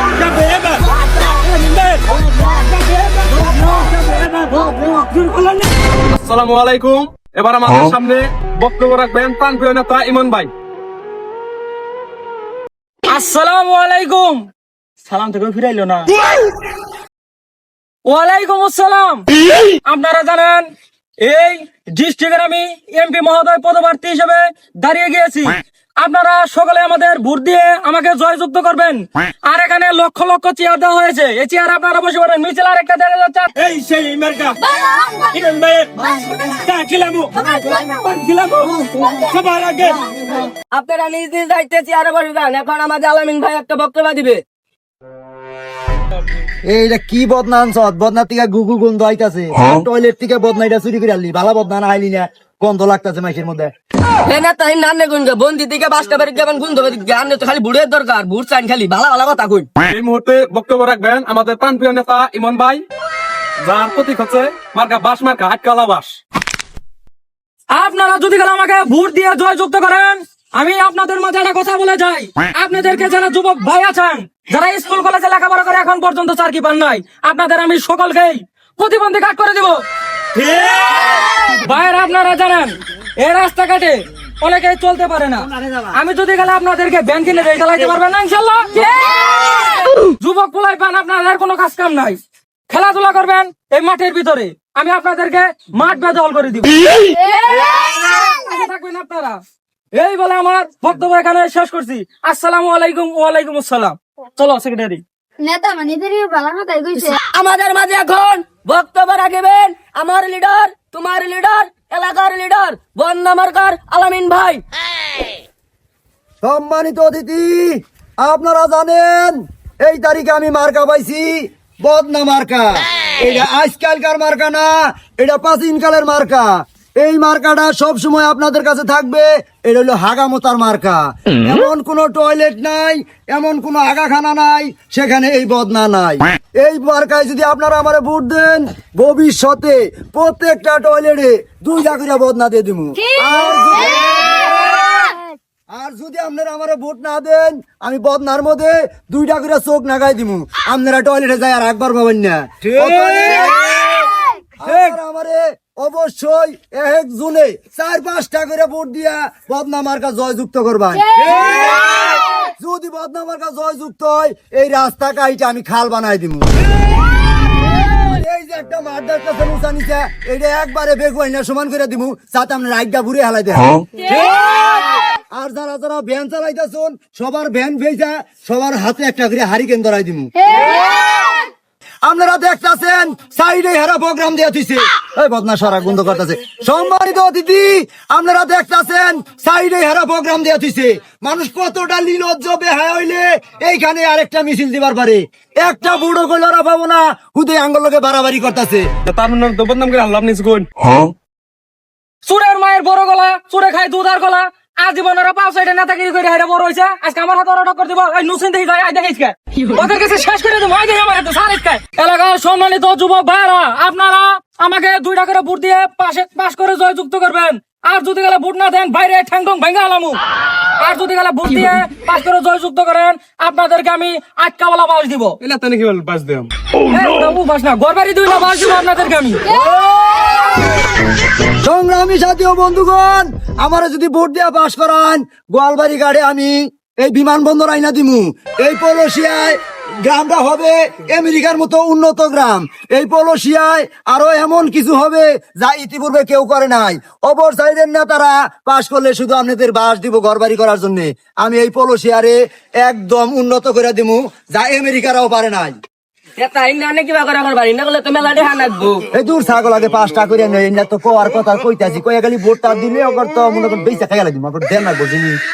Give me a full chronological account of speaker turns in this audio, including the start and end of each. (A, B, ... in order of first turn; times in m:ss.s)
0:00.3-0:01.0 A
0:01.6-0:02.0 A
0:02.5-0:05.6 B
0:06.2-0:10.5 A
0:13.1-0:14.5 B
0:15.0-0:16.1 B
0:18.1-0:19.3 B
0:19.8-0:20.7 B
0:21.2-0:37.3 B
0:34.7-0:35.2 C
0:37.3-0:39.3 D
0:39.0-0:40.0 B
0:40.6-0:44.4 D
0:46.7-0:53.7 E
0:54.2-0:59.7 D
0:59.9-1:02.8 A
1:03.6-1:06.2 A
1:07.7-1:19.8 B
1:20.3-1:32.2 B
1:25.4-1:26.0 E
1:32.7-1:39.4 B
1:37.2-1:38.0 C
1:39.9-1:45.0 B
1:45.4-1:47.2 C
1:46.9-1:54.6 D
1:56.4-2:24.7 E
2:23.1-2:24.4 C
2:25.0-2:25.3 C
2:25.7-2:33.6 E
2:34.6-2:46.6 E
2:41.1-2:42.5 C
2:47.6-3:00.6 E
2:54.2-2:54.6 C
3:00.5-3:01.5 C
3:02.0-3:18.8 E
3:19.1-3:20.6 A
3:22.2-3:40.2 B
3:40.8-3:45.4 B
3:45.4-3:46.5 A
3:46.8-3:49.6 B
3:49.7-3:50.4 C
3:51.6-4:15.7 E
4:16.4-4:19.0 D
4:19.1-4:25.4 E